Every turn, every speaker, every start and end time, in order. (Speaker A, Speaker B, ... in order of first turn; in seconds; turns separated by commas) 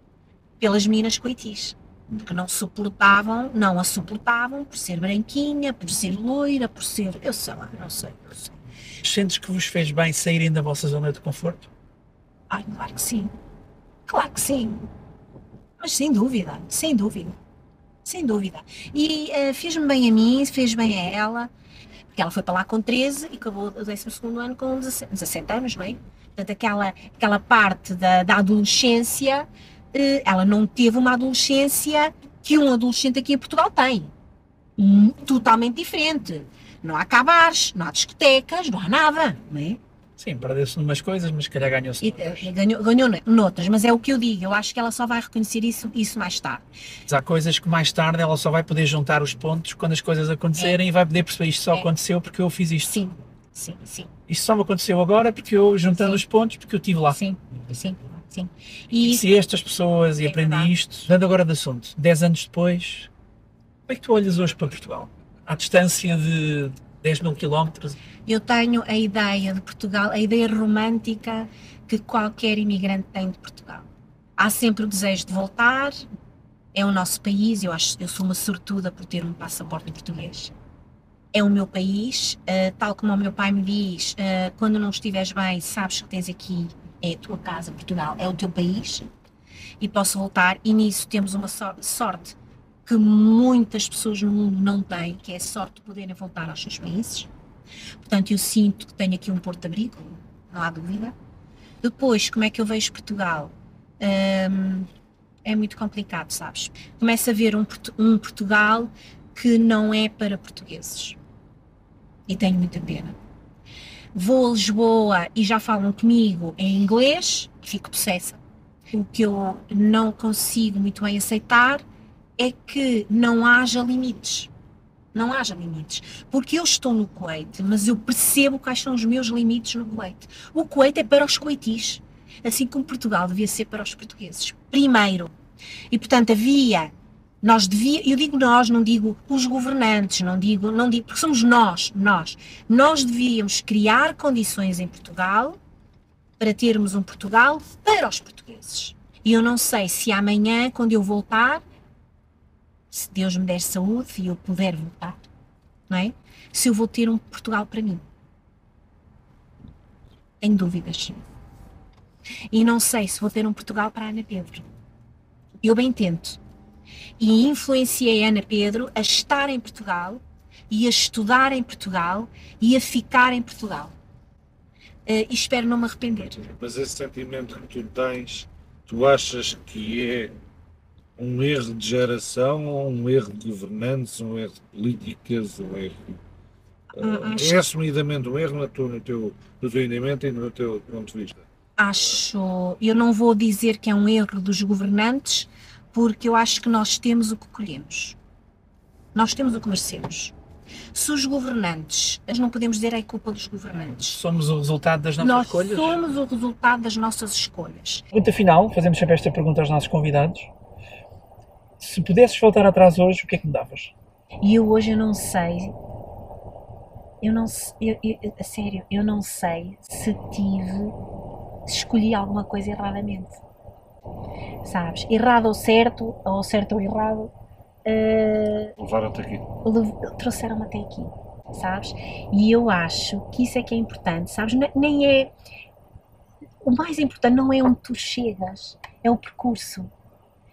Speaker A: 0.6-8.6, Speaker B: 9.0-11.7, Speaker A: 12.5-13.3, Speaker A: 14.1-14.9, Speaker A: 15.8-17.4, Speaker A: 18.1-21.5, Speaker A: 22.1-34.1, Speaker A: 34.8-39.8, Speaker B: 40.2-42.5, Speaker A: 42.0-46.6, Speaker B: 47.1-53.0, Speaker A: 52.9-54.1, Speaker B: 54.3-57.2, Speaker A: 55.9-56.2, Speaker A: 57.1-59.4, Speaker B: 59.0-63.1, Speaker A: 60.2-60.7, Speaker B: 63.9-68.0, Speaker A: 68.3-73.9, Speaker A: 74.4-76.0, Speaker A: 76.7-80.5, Speaker A: 81.3-89.1, Speaker A: 89.8-97.3, Speaker A: 98.0-101.2, Speaker A: 101.8-104.9, Speaker A: 105.5-111.2, Speaker A: 112.3-113.2, Speaker A: 114.1-118.4, Speaker A: 118.9-121.8, Speaker A: 122.4-124.5, Speaker A: 125.1-135.3, Speaker A: 135.9-145.6, Speaker A: 146.4-151.6, Speaker A: 152.9-155.3, Speaker A: 155.9-158.1, Speaker A: 160.4-161.2, Speaker A: 162.5-164.7, Speaker A: 165.6-166.4, Speaker A: 167.2-173.9, Speaker A: 175.1-176.5, Speaker C: 176.6-180.3, Speaker C: 181.2-186.2, Speaker A: 186.9-187.7, Speaker C: 187.0-191.4, Speaker A: 191.8-198.2, Speaker A: 199.2-200.3, Speaker A: 200.9-204.2, Speaker B: 204.1-206.0, Speaker A: 205.2-208.0, Speaker B: 208.1-210.5, Speaker B: 211.8-213.9, Speaker A: 214.4-215.8, Speaker A: 217.2-221.0, Speaker A: 221.7-223.4, Speaker A: 224.6-227.3, Speaker A: 227.8-228.8, Speaker C: 228.8-229.5, Speaker A: 229.6-235.3, Speaker A: 236.6-239.9